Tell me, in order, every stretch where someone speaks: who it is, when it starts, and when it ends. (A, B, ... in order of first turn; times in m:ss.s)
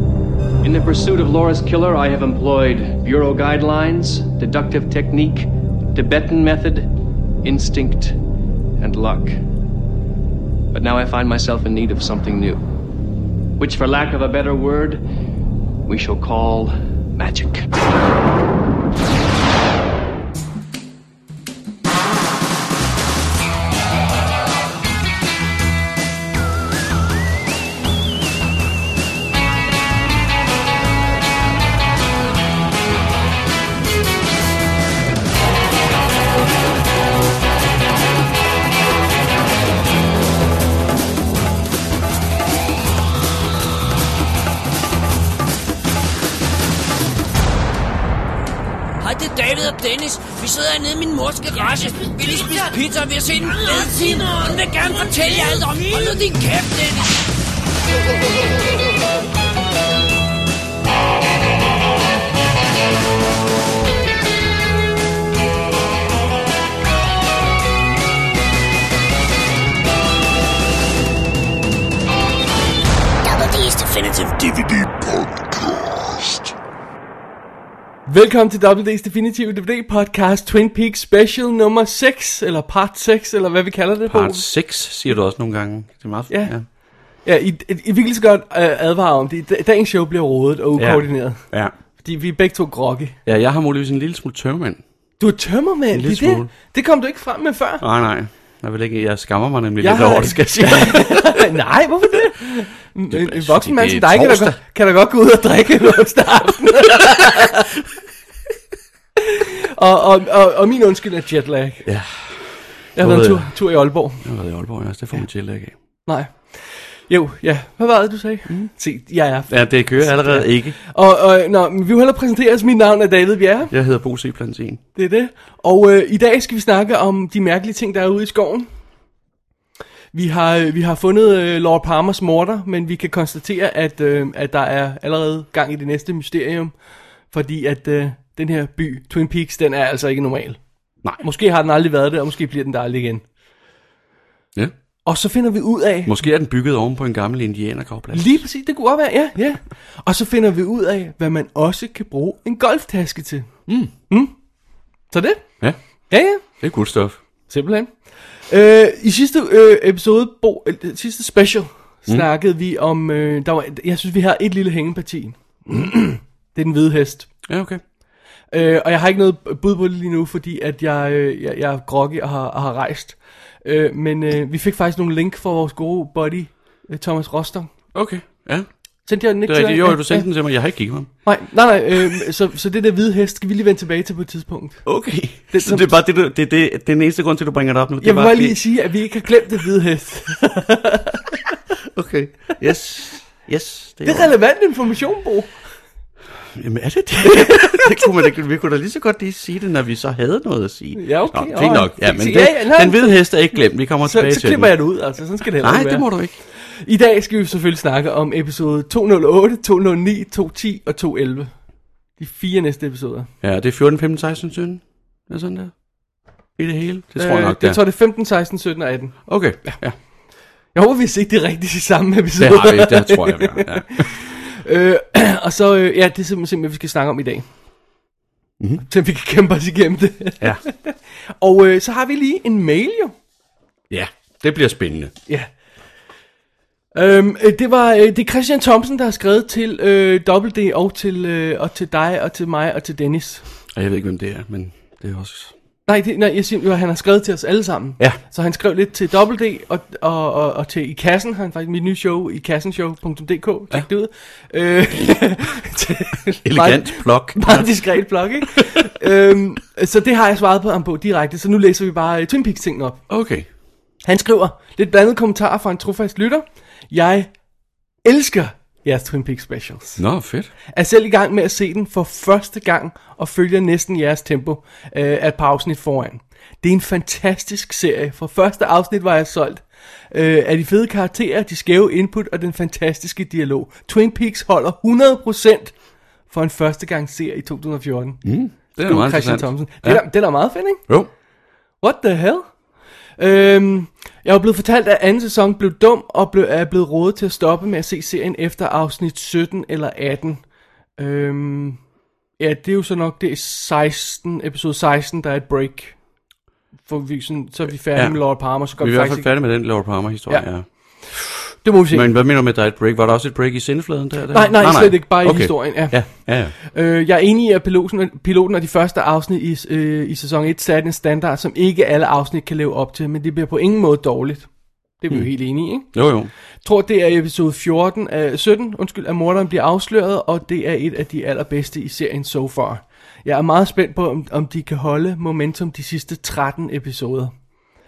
0:00.6-0:08.2 A
0:08.8-0:09.4 A
0:10.7-0:12.6 A
0:13.6-0:15.0 A
0:15.9-0:17.7 A
0:49.0-0:57.1 B
1:13.2-1:16.5 C
1:18.1-1:24.4 D
1:24.1-1:26.6 E
1:26.3-1:26.6 D
1:27.2-1:31.4 D
1:30.8-1:31.7 E
1:32.0-1:33.2 D
1:33.2-1:34.8 E
1:35.2-1:37.9 D
1:35.9-1:36.5 E
1:37.8-1:41.4 E
1:39.8-1:47.7 D
1:43.1-1:44.6 E
1:49.2-1:51.9 D
1:51.8-1:53.6 E
1:53.0-1:54.2 D
1:54.2-1:55.7 E
1:56.0-2:03.7 D
1:59.5-2:00.8 E
2:03.7-2:04.8 E
2:05.0-2:08.7 D
2:10.1-2:16.7 D
2:17.3-2:20.6 D
2:21.2-2:23.2 D
2:25.0-2:26.1 D
2:26.0-2:28.4 E
2:28.1-2:33.5 D
2:33.7-2:33.9 E
2:34.1-2:34.3 D
2:35.1-2:35.5 D
2:36.1-2:36.4 D
2:36.4-2:37.2 E
2:37.5-2:47.3 D
2:47.4-2:47.8 E
2:48.5-2:57.7 D
2:57.9-2:58.7 E
2:59.0-3:00.3 D
2:59.4-3:01.1 E
3:01.2-3:05.9 D
3:04.8-3:08.6 E
3:08.0-3:11.4 D
3:11.9-3:14.3 E
3:14.0-3:15.6 D
3:16.5-3:24.8 E
3:17.2-3:18.1 D
3:21.0-3:23.2 D
3:24.0-3:31.6 D
3:25.4-3:26.3 E
3:32.2-3:33.3 D
3:33.4-3:35.9 E
3:36.6-3:37.8 E
3:37.2-3:39.8 D
3:39.3-3:40.0 E
3:40.7-3:47.4 D
3:42.4-3:44.1 E
3:48.6-3:48.8 E
3:48.8-3:53.1 D
3:53.9-3:55.1 E
3:56.9-4:03.4 D
4:03.7-4:05.5 E
4:05.8-4:23.0 D
4:16.4-4:17.9 E
4:18.4-4:18.7 E
4:23.1-4:23.5 E
4:24.0-4:27.3 D
4:28.0-4:30.0 D
4:30.0-4:30.5 E
4:30.7-4:45.8 D
4:46.3-4:50.8 D
4:48.2-4:50.1 E
4:51.8-4:52.6 D
4:53.2-5:00.4 D
5:01.0-5:01.8 D
5:02.4-5:06.0 D
5:06.8-5:09.6 D
5:07.9-5:10.6 E
5:10.3-5:12.1 D
5:11.9-5:16.5 E
5:14.3-5:26.0 D
5:25.1-5:26.3 E
5:26.6-5:37.3 D